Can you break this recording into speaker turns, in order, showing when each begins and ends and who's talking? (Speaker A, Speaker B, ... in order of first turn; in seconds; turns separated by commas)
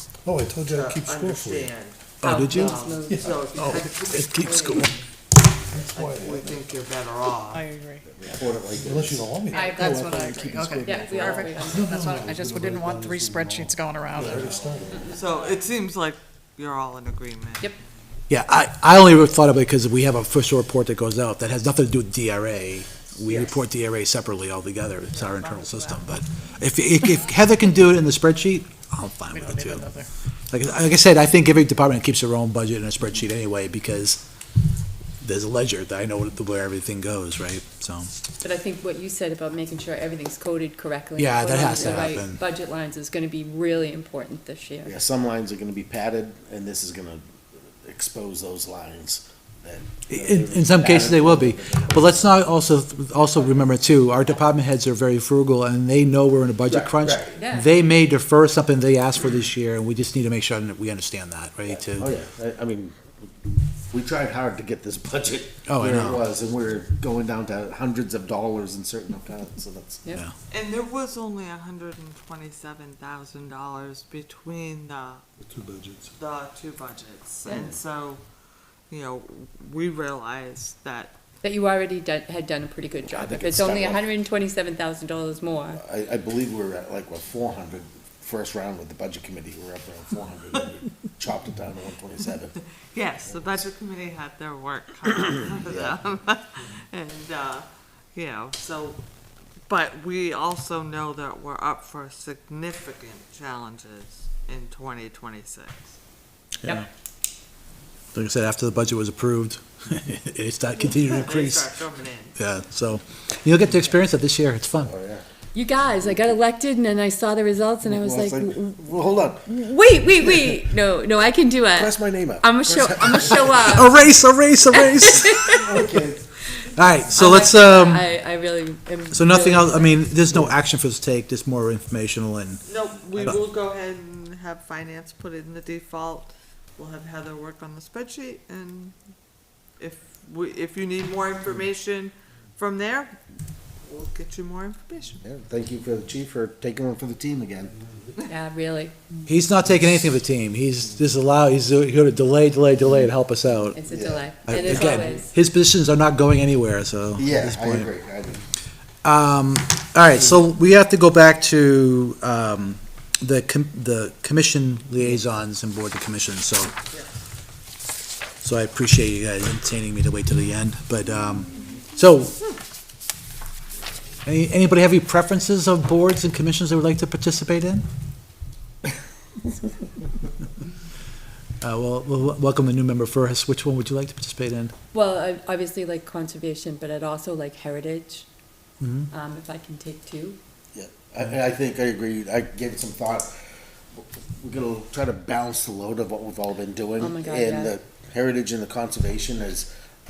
Speaker A: 0.2-1.7, Speaker B: 0.6-5.0, Speaker C: 2.2-2.8, Speaker D: 2.2-3.2, Speaker A: 3.1-3.9, Speaker C: 3.5-4.9, Speaker A: 5.7-6.7, Speaker B: 5.9-7.6, Speaker E: 7.5-8.1, Speaker F: 8.1-9.3, Speaker A: 8.2-15.1, Speaker D: 9.5-11.9, Speaker E: 9.7-14.4, Speaker F: 14.3-14.6, Speaker B: 15.1-17.7, Speaker C: 18.3-29.9, Speaker D: 25.2-26.0, Speaker E: 29.3-30.1, Speaker C: 30.5-34.2, Speaker C: 35.2-38.1, Speaker D: 38.4-44.9, Speaker C: 41.2-42.4, Speaker F: 44.8-52.4, Speaker C: 50.1-62.1, Speaker F: 56.6-57.4, Speaker D: 57.3-57.7, Speaker F: 61.7-63.0, Speaker F: 63.9-70.0, Speaker C: 65.7-66.2, Speaker B: 70.5-75.2, Speaker A: 75.4-76.1, Speaker B: 76.1-78.2, Speaker F: 77.5-77.8, Speaker B: 78.9-81.2, Speaker D: 81.4-85.8, Speaker F: 83.1-84.1, Speaker F: 85.8-92.5, Speaker B: 92.8-99.0, Speaker F: 93.3-93.6, Speaker F: 95.5-96.0, Speaker B: 99.7-106.0, Speaker C: 108.1-111.7, Speaker B: 111.0-112.4, Speaker C: 112.4-114.9, Speaker F: 114.8-115.2, Speaker D: 115.5-118.8, Speaker F: 117.8-119.5, Speaker D: 119.5-124.1, Speaker F: 120.1-120.6, Speaker F: 121.7-123.8, Speaker C: 123.6-125.4, Speaker D: 124.7-126.0, Speaker F: 125.4-126.2, Speaker C: 126.7-128.1, Speaker D: 127.1-130.1, Speaker C: 129.1-132.6, Speaker B: 132.6-138.9, Speaker B: 139.8-143.2, Speaker B: 143.8-145.2, Speaker F: 145.2-147.8, Speaker D: 148.2-148.9, Speaker C: 149.2-153.8, Speaker D: 153.7-155.3, Speaker F: 153.8-155.0, Speaker C: 154.4-157.9, Speaker F: 157.2-158.4, Speaker C: 159.0-166.7, Speaker C: 168.4-172.4, Speaker C: 174.2-177.8, Speaker C: 181.6-184.7, Speaker D: 184.9-188.2, Speaker C: 188.8-189.1, Speaker D: 189.1-190.4, Speaker F: 190.7-193.3, Speaker F: 193.9-199.7, Speaker D: 197.0-197.7